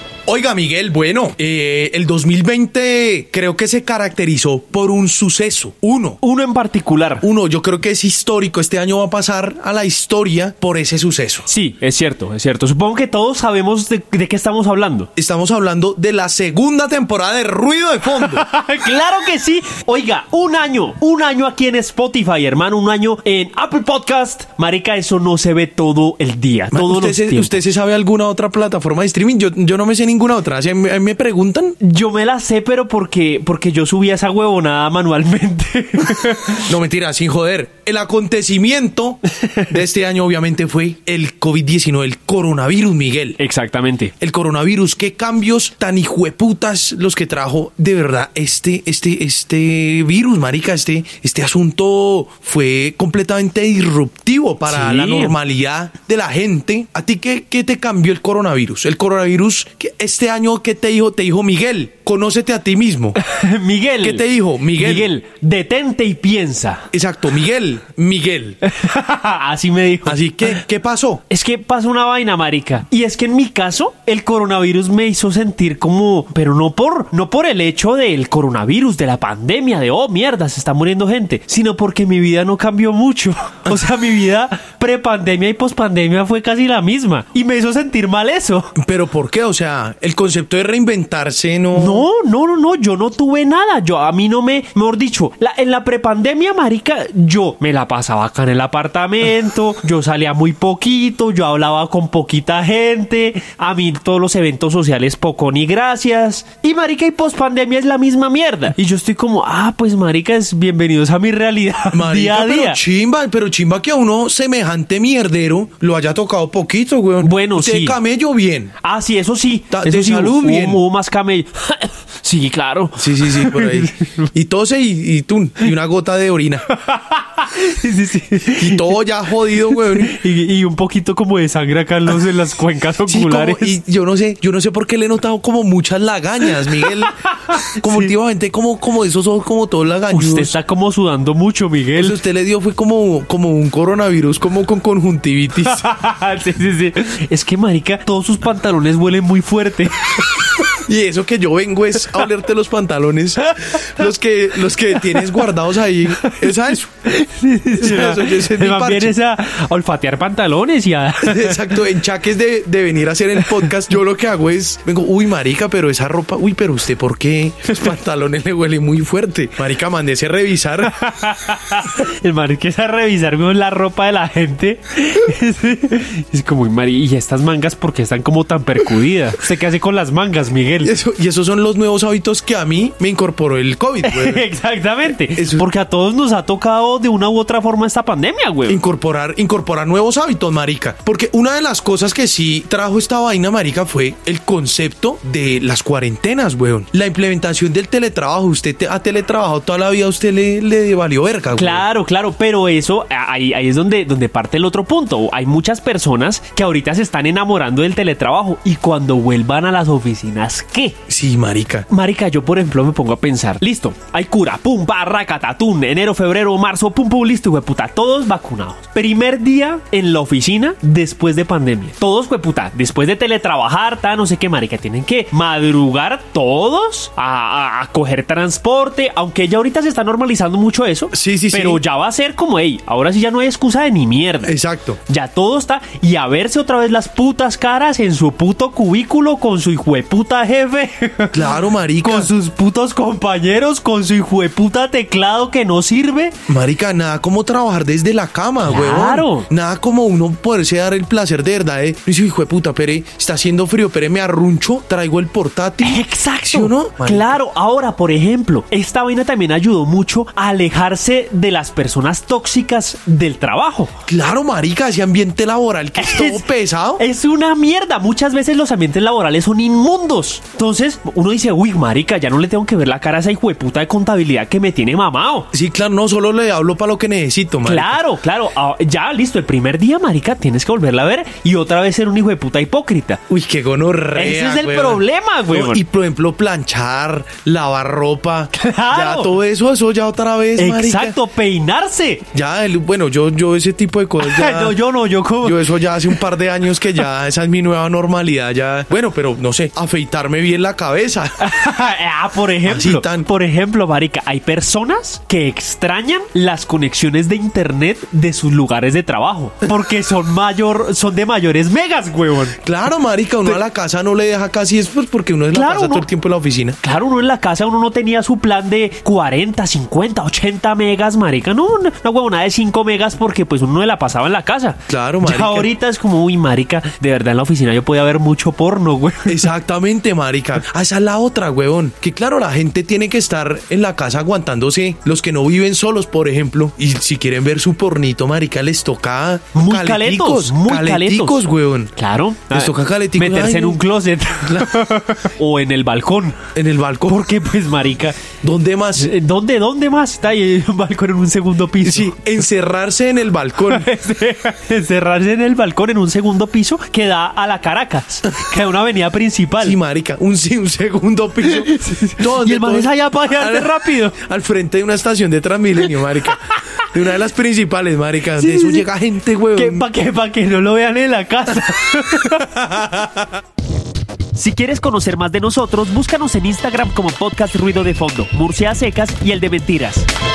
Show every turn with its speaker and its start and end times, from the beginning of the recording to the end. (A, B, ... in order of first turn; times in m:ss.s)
0:00.3-0:06.2 A
0:06.2-0:07.2 B
0:07.2-0:11.5 A
0:11.5-0:15.1 B
0:15.2-0:18.5 A
0:18.1-0:27.6 B
0:26.7-0:31.8 A
0:31.8-0:36.8 B
0:36.6-0:43.4 A
0:39.3-0:39.7 B
0:43.4-0:44.1 B
0:44.2-1:03.2 A
0:54.7-0:55.4 B
1:03.2-1:06.9 B
1:04.0-1:05.1 A
1:06.9-1:08.6 A
1:08.6-1:10.5 B
1:10.0-1:11.2 A
1:11.3-1:28.7 B
1:28.8-1:32.1 A
1:31.8-1:52.8 B
1:51.9-1:58.8 A
1:57.2-1:58.0 B
1:58.8-2:04.3 B
1:59.7-2:00.8 A
2:03.0-2:06.7 A
2:06.7-2:13.8 B
2:08.6-2:10.2 A
2:13.0-2:20.5 A
2:16.5-2:18.1 B
2:20.1-2:22.2 B
2:22.0-2:25.9 A
2:25.6-2:30.8 B
2:30.6-2:36.9 A
2:33.5-2:33.9 B
2:35.0-2:35.4 B
2:36.2-2:41.9 B
2:37.7-2:39.2 A
2:41.2-2:51.0 A
2:50.9-3:00.9 B
3:00.8-3:04.5 A
3:04.0-3:08.8 B
3:05.3-3:05.7 A
3:08.7-3:21.8 A
3:21.6-3:31.0 B
3:31.1-3:31.9 A
3:31.9-3:54.6 B
3:51.1-3:51.8 A
3:54.4-3:55.0 A
3:55.1-4:06.4 B
4:01.3-4:02.3 A
4:06.5-4:17.3 A
4:08.7-4:09.5 B
4:15.8-4:23.9 B
4:24.1-4:27.0 A
4:26.0-4:26.5 B
4:27.0-4:35.5 B
4:35.5-4:38.0 A
4:37.6-4:43.2 B
4:43.3-4:51.2 A
4:44.2-4:45.8 B
4:48.5-4:49.3 B
4:50.6-4:52.3 B
4:52.3-4:54.8 A
4:54.2-4:56.2 B
4:55.4-5:01.4 A
5:01.4-5:12.6 B
5:02.7-5:03.3 A
5:12.6-5:16.8 A
5:15.5-5:16.1 B
5:16.8-5:29.5 B
5:24.9-5:25.7 A
5:29.3-5:41.9 A
5:39.6-5:41.4 B
5:42.0-5:46.4 B
5:42.5-5:43.8 A
5:44.5-5:44.7 A
5:46.5-5:47.3 A
5:47.1-5:48.2 B
5:48.4-5:49.1 A
5:49.0-5:52.2 B
5:51.8-5:53.9 A
5:53.6-5:59.8 B
5:59.6-6:09.9 A
6:01.4-6:04.2 B
6:08.4-6:08.8 B
6:09.6-6:12.6 B
6:12.2-6:13.3 A
6:14.4-6:20.1 B